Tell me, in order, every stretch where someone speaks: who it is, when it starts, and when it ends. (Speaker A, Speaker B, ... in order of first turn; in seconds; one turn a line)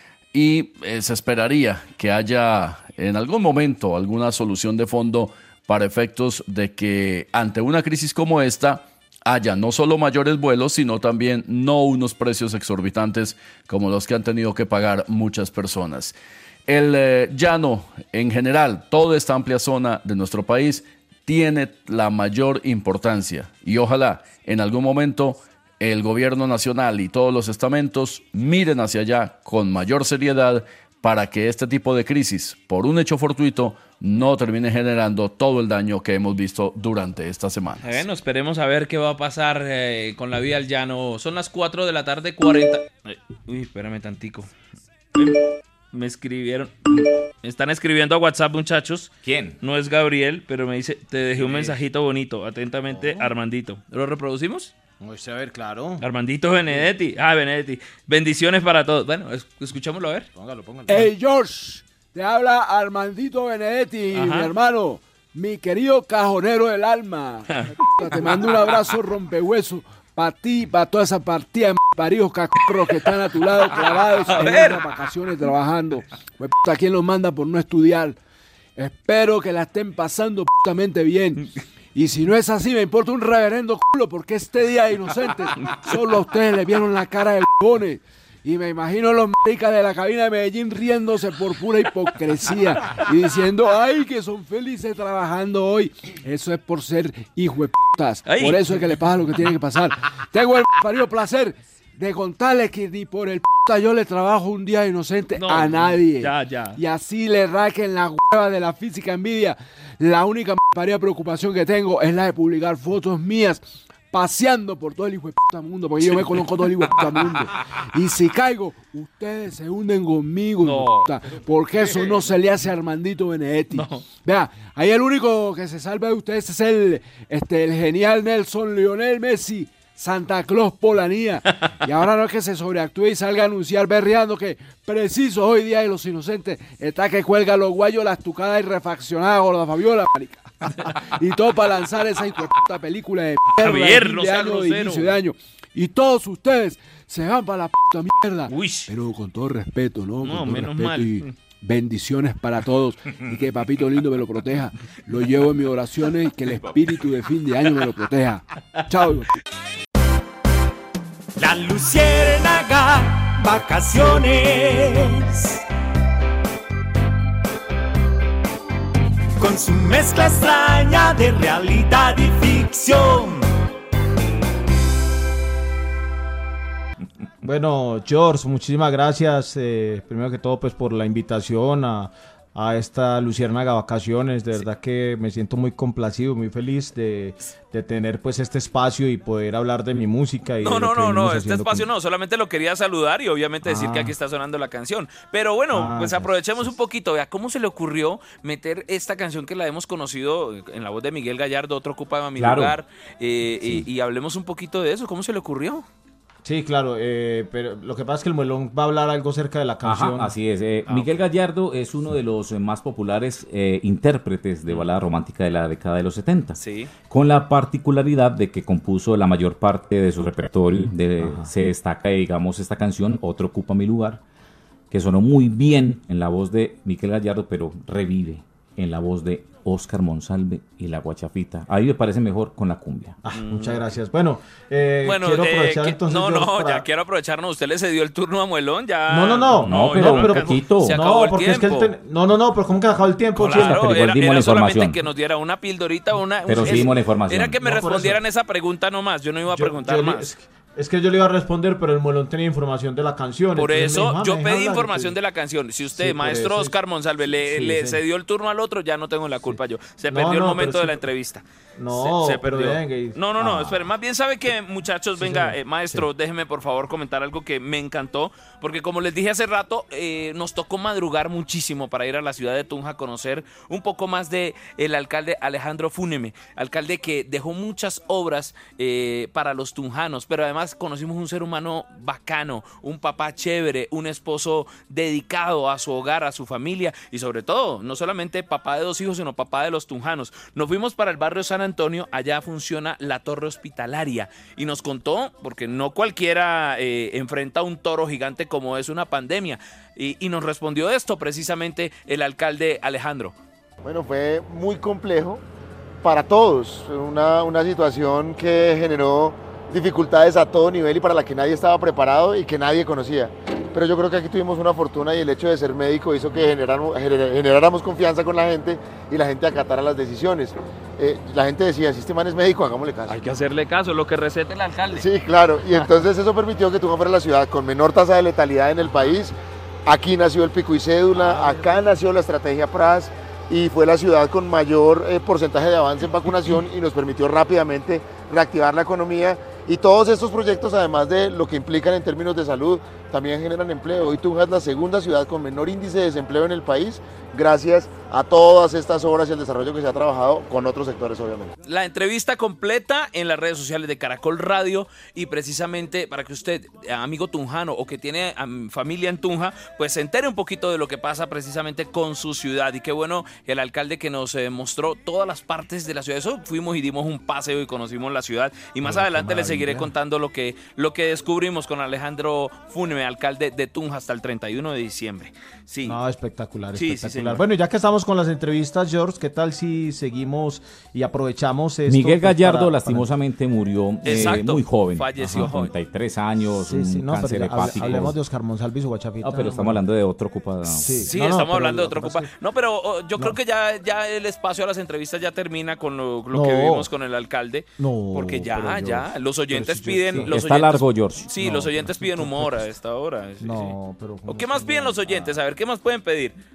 Speaker A: 0.3-16.1
Speaker A: 16.7-38.0
Speaker B: 37.8-44.5
Speaker B: 45.2-45.4
Speaker B: 45.9-46.9
Speaker B: 47.4-54.7
Speaker C: 49.2-49.6
Speaker D: 51.4-51.8
Speaker D: 52.9-53.3
Speaker D: 55.0-56.0
Speaker B: 56.0-60.3
Speaker D: 60.4-61.0
Speaker E: 60.9-78.2
Speaker B: 64.2-64.5
Speaker B: 67.5-67.8
Speaker B: 73.8-74.8
Speaker E: 78.8-159.3
Speaker B: 98.3-98.7
Speaker B: 105.3-106.8
Speaker B: 116.1-117.3
Speaker B: 120.6-121.2
Speaker B: 123.7-124.1
Speaker B: 143.6-145.2
Speaker B: 148.5-148.9
Speaker B: 150.2-151.3
Speaker F: 161.4-165.6
Speaker F: 169.4-173.5
Speaker D: 177.4-191.9
Speaker B: 190.6-205.9
Speaker D: 193.7-194.1
Speaker D: 195.7-196.7
Speaker C: 202.4-202.8
Speaker D: 206.4-210.4
Speaker C: 209.8-224.2
Speaker B: 216.6-216.9
Speaker D: 221.2-221.5
Speaker C: 224.9-233.2
Speaker D: 233.2-236.8
Speaker B: 233.3-233.8
Speaker B: 235.0-241.9
Speaker D: 239.1-244.0
Speaker C: 239.6-241.1
Speaker B: 243.4-250.3
Speaker C: 243.4-245.0
Speaker C: 246.5-247.6
Speaker D: 246.5-246.9
Speaker D: 247.6-248.2
Speaker D: 249.5-255.1
Speaker B: 253.5-303.4
Speaker D: 255.9-256.7
Speaker D: 257.5-258.0
Speaker D: 260.1-261.0
Speaker D: 261.8-263.9
Speaker D: 265.2-266.1
Speaker G: 303.8-305.4
Speaker G: 306.0-323.2
Speaker B: 323.1-325.1
Speaker G: 324.9-351.5
Speaker B: 351.7-376.0
Speaker D: 368.8-369.9
Speaker D: 375.8-383.1
Speaker B: 376.7-377.4
Speaker C: 381.9-388.2
Speaker B: 384.0-385.7
Speaker D: 386.5-389.9
Speaker C: 389.2-391.2
Speaker D: 390.7-392.3
Speaker B: 391.0-406.4
Speaker D: 396.3-396.9
Speaker D: 397.8-400.4
Speaker C: 400.1-401.3
Speaker D: 401.3-402.6
Speaker D: 403.4-405.4